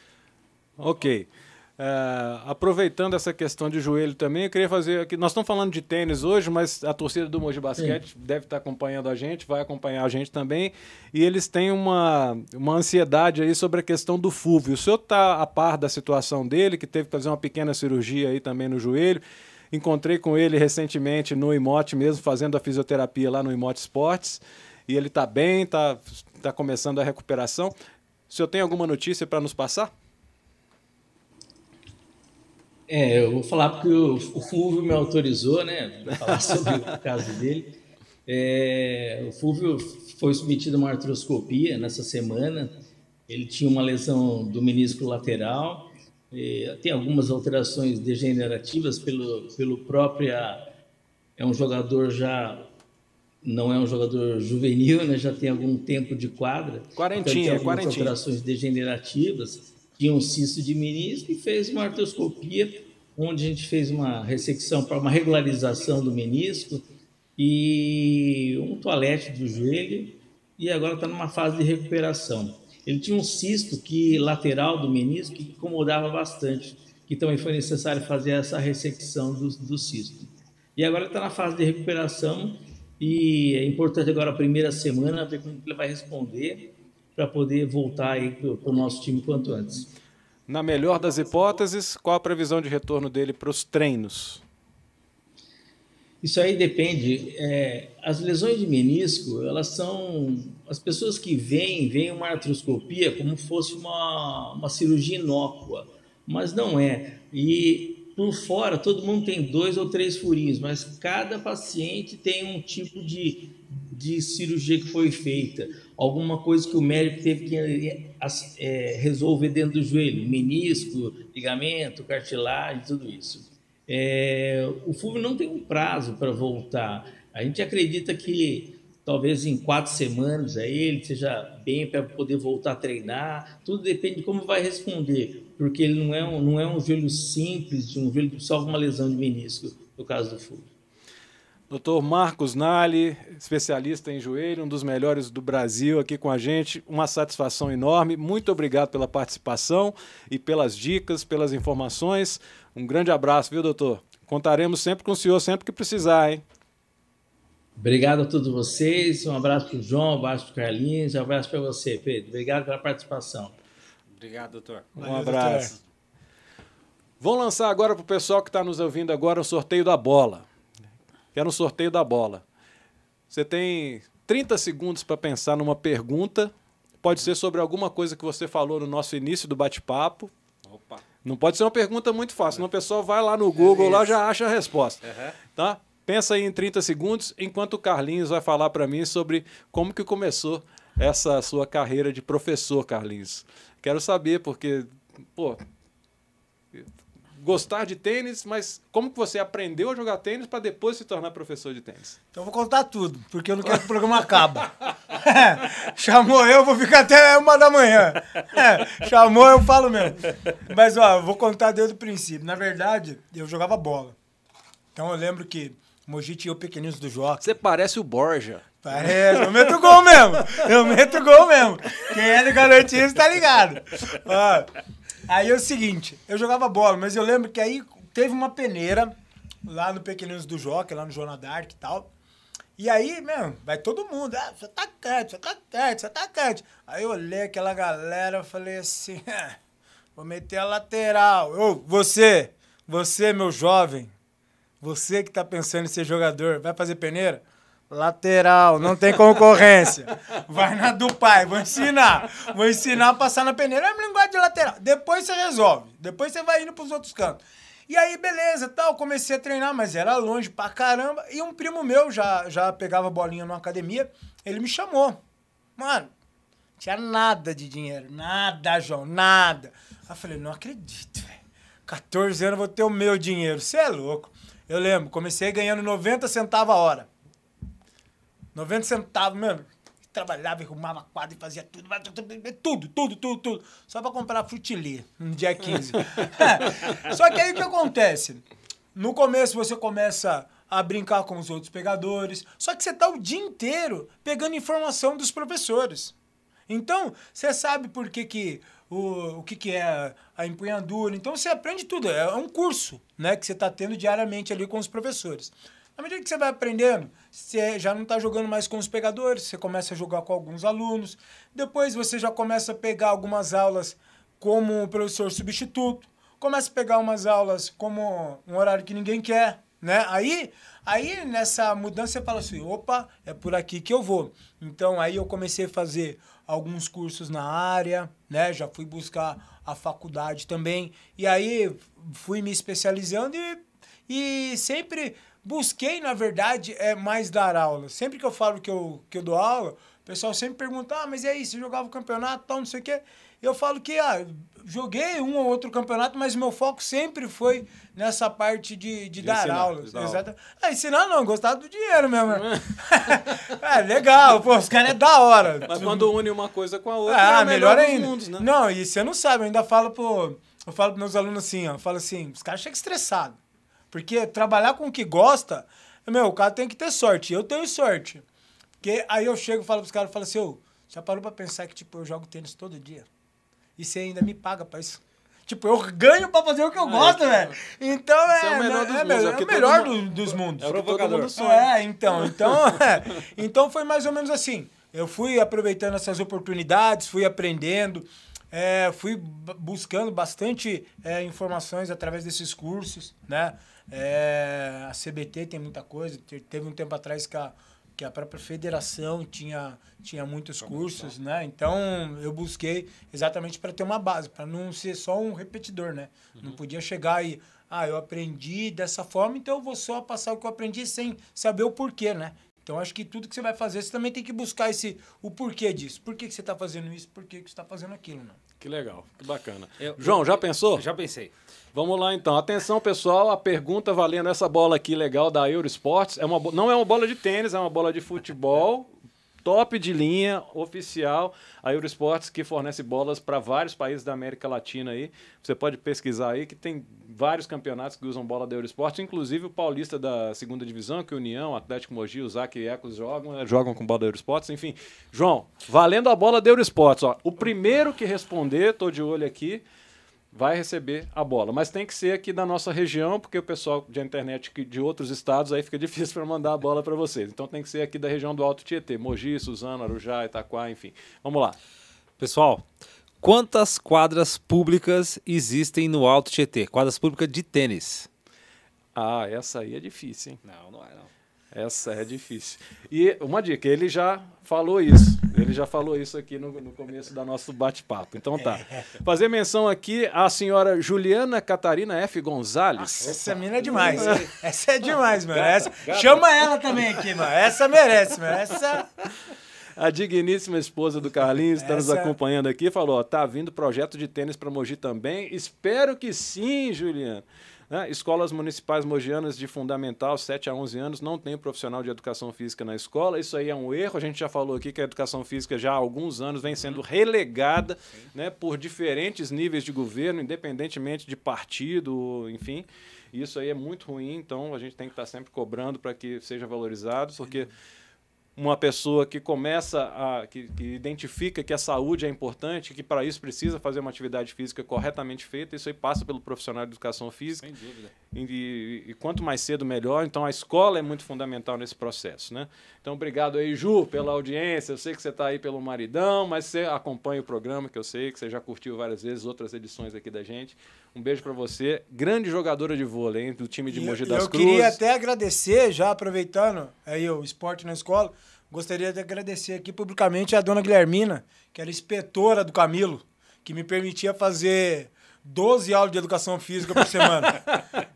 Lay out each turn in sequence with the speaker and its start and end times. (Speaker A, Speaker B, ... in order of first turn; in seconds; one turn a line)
Speaker A: 0.8-27.7
Speaker A: 28.3-29.9
Speaker B: 32.9-42.7
Speaker A: 36.3-36.8
Speaker B: 43.3-50.6
Speaker B: 51.4-52.7
Speaker B: 53.4-89.9
Speaker A: 57.0-58.2
Speaker A: 90.5-94.4
Speaker B: 96.2-140.7
Speaker A: 141.7-156.4
Speaker B: 157.8-163.6
Speaker C: 164.1-164.9
Speaker A: 165.0-165.7
Speaker D: 165.0-165.7
Speaker A: 167.2-170.5
Speaker A: 171.3-172.4
Speaker A: 173.3-180.3
Speaker C: 180.7-181.0
Speaker A: 181.2-195.6
Speaker C: 183.6-184.2
Speaker C: 185.1-185.4
Speaker A: 196.7-202.2
Speaker D: 202.3-214.2
Speaker D: 214.9-217.6
Speaker A: 217.4-219.8
Speaker D: 218.8-224.7
Speaker D: 225.3-229.2
Speaker D: 229.7-232.1
Speaker D: 232.8-239.6
Speaker D: 240.2-244.1
Speaker D: 244.8-265.2
Speaker D: 265.8-266.1
Speaker D: 266.8-277.1
Speaker D: 278.6-288.4
Speaker D: 288.9-296.1
Speaker D: 296.7-356.1
Speaker A: 349.2-350.2
Speaker A: 352.3-353.5
Speaker A: 355.7-358.5
Speaker D: 357.1-363.4
Speaker D: 363.9-368.2
Speaker D: 368.8-373.1
Speaker D: 373.8-380.7
Speaker A: 376.9-377.5
Speaker A: 378.3-382.8
Speaker C: 380.6-381.3
Speaker D: 381.4-418.4
Speaker C: 400.6-401.1
Speaker A: 418.6-420.9
Speaker C: 419.8-421.3
Speaker A: 421.7-428.9
Speaker A: 429.4-449.6
Speaker A: 450.3-461.6
Speaker C: 462.2-462.7
Speaker C: 463.2-468.1
Speaker A: 468.9-470.4
Speaker C: 470.4-471.1
Speaker A: 471.5-483.2
Speaker D: 478.4-478.8
Speaker D: 482.8-488.9
Speaker C: 483.0-484.3
Speaker A: 483.9-484.2
Speaker C: 485.3-486.4
Speaker A: 489.8-517.5
Speaker D: 491.6-492.1
Speaker A: 518.4-527.5
Speaker C: 527.4-527.9
Speaker A: 528.1-544.8
Speaker D: 543.7-557.5